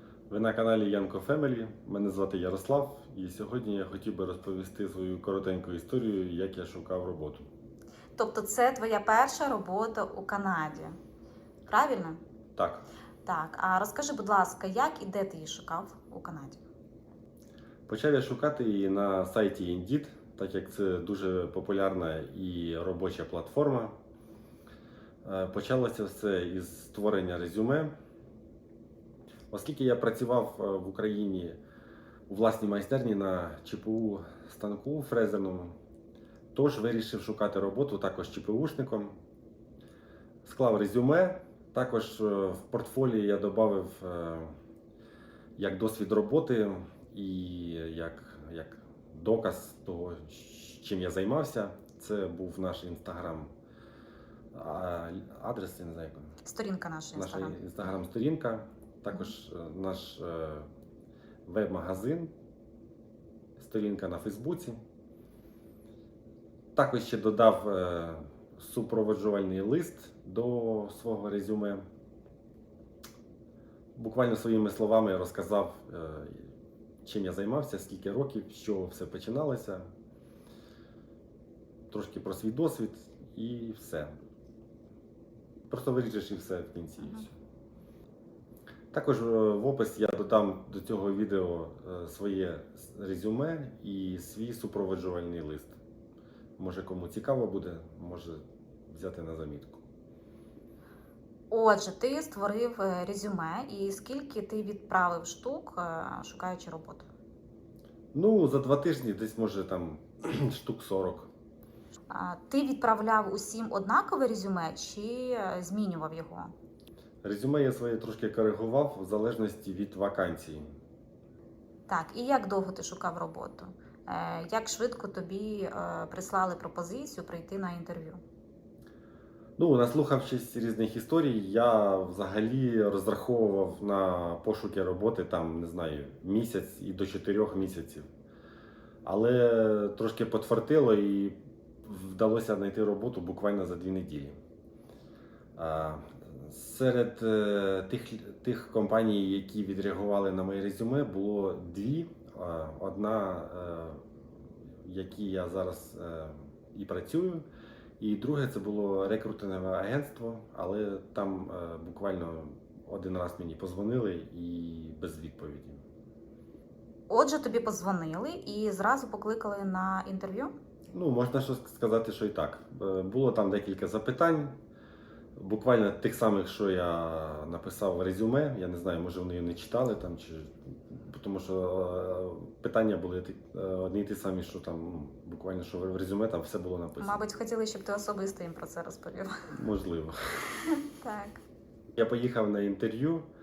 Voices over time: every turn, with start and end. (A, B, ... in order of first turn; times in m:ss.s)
0:00.3-0:07.4 A
0:08.2-0:11.0 B
0:11.7-0:12.2 B
0:12.6-0:12.8 A
0:13.2-0:16.6 B
0:17.9-0:24.0 A
0:25.2-0:27.9 A
0:29.5-0:31.6 A
0:32.3-0:35.8 A
0:36.5-0:39.2 A
0:40.4-0:44.5 A
0:45.6-0:53.5 A
0:54.5-0:56.4 A
0:56.4-0:57.6 B
0:57.2-1:00.7 A
1:01.4-1:02.3 A
1:03.6-1:04.8 A
1:06.8-1:11.8 A
1:14.0-1:16.5 A
1:17.0-1:19.9 A
1:21.9-1:24.2 A
1:25.7-1:27.3 A
1:27.0-1:27.3 B
1:28.9-1:35.8 A
1:36.6-1:39.8 A
1:41.5-1:47.1 B
1:48.1-1:51.3 A
1:52.1-1:56.5 B
1:57.2-2:00.7 A
2:01.9-2:08.2 B
2:09.6-2:18.1 A
2:19.0-2:24.4 A
2:25.6-2:34.1 A
2:34.8-2:37.4 A
2:38.0-2:45.8 A
2:47.1-2:50.5 B
2:50.9-2:54.6 A
2:55.4-3:07.2 A
3:07.0-3:09.5 B
3:09.5-3:10.5 A
3:10.8-3:11.4 B
3:12.0-3:13.3 A